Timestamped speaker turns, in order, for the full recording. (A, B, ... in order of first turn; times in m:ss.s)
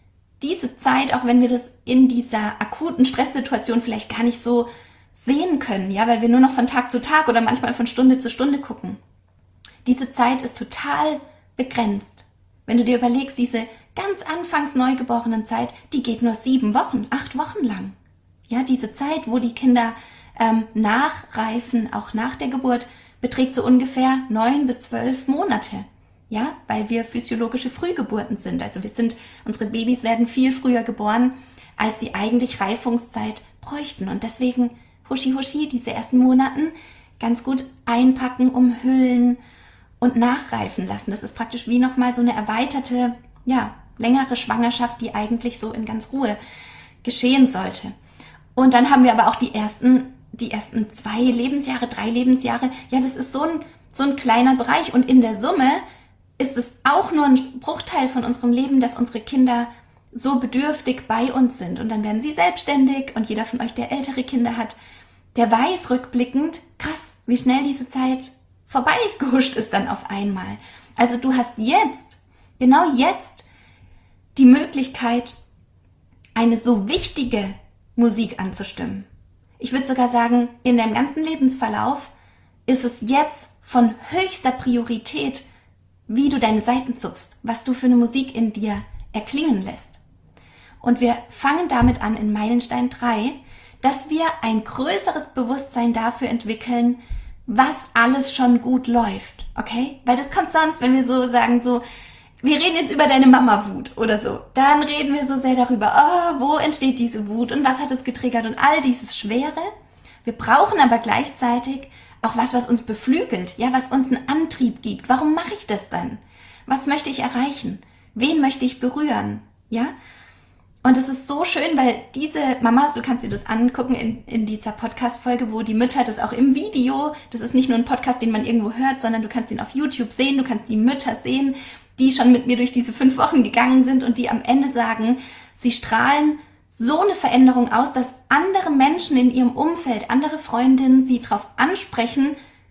0:00.4-0:09.0 A
0:09.8-0:18.0 A
0:18.5-0:39.4 A
0:40.0-0:46.4 A
0:47.0-0:47.9 A
0:48.5-0:55.8 A
0:56.4-1:04.8 A
1:05.3-1:13.4 A
1:14.3-1:15.4 A
1:16.3-1:19.1 A
1:19.6-1:22.1 A
1:22.7-1:25.4 A
1:26.1-1:30.0 A
1:30.8-1:41.8 A
1:42.4-1:49.7 A
1:50.2-1:59.9 A
2:00.8-2:22.3 A